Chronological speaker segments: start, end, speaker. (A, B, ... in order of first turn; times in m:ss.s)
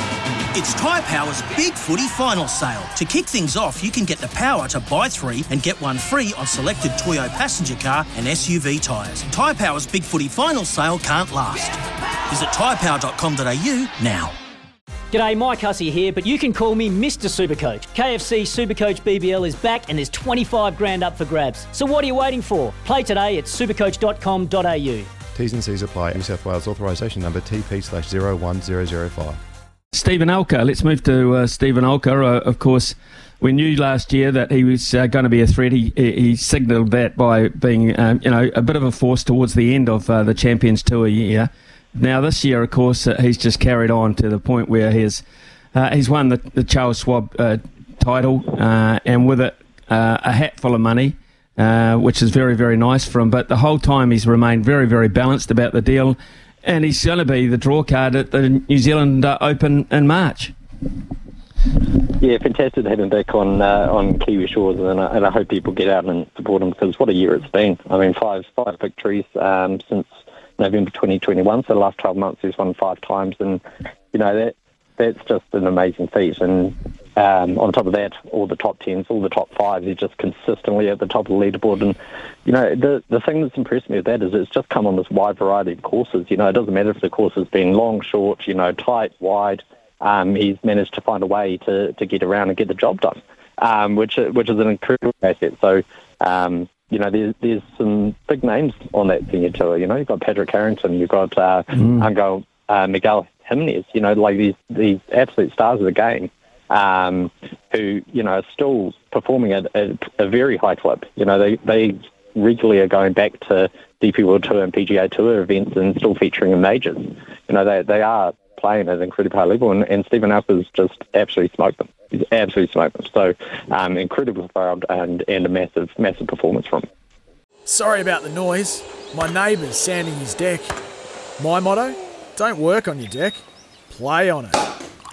0:00.5-0:14.3 A
0:15.1-0:25.1 B
0:25.3-0:29.4 C
0:29.9-0:45.2 D
0:45.7-1:00.5 D
1:02.0-2:06.9 E
2:07.6-2:10.7 F
2:11.4-2:14.6 F